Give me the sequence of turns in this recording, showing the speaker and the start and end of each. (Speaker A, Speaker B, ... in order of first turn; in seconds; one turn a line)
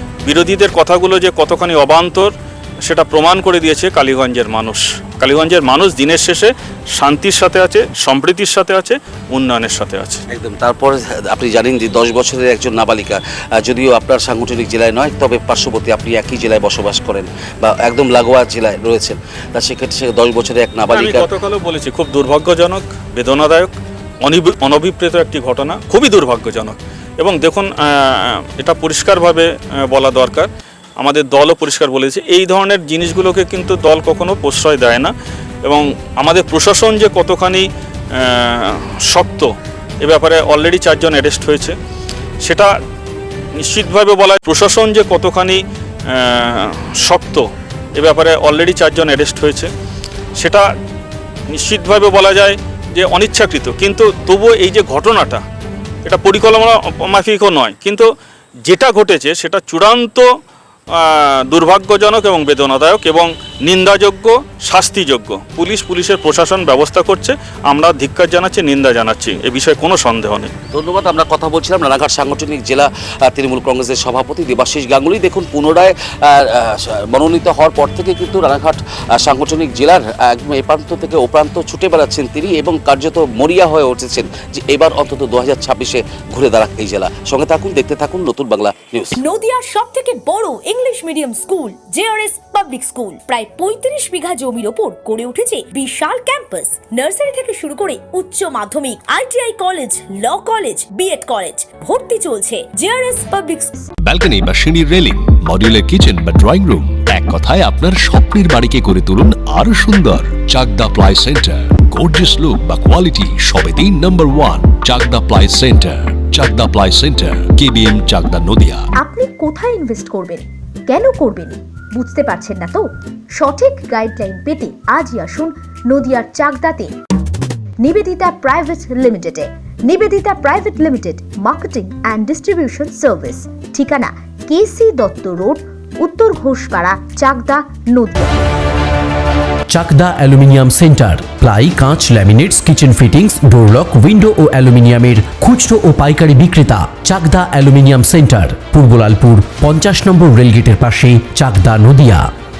Speaker A: 0.2-2.3
Speaker A: 2.8-10.2
Speaker B: 10.3-21.2
Speaker A: 20.9-30.5
Speaker A: 31.0-35.1
Speaker A: 35.6-37.6
Speaker A: 38.2-39.5
Speaker A: 40.0-41.8
Speaker A: 42.4-42.7
Speaker A: 43.6-47.4
Speaker A: 47.9-49.7
Speaker A: 50.4-50.6
Speaker A: 51.5-55.4
Speaker A: 56.0-58.1
Speaker A: 58.6-60.3
Speaker A: 60.9-70.5
Speaker B: 70.7-89.2
Speaker C: 89.2-103.8
Speaker D: 104.0-118.8
Speaker E: 119.0-126.9
Speaker E: 127.8-138.3
Speaker F: 139.7-152.2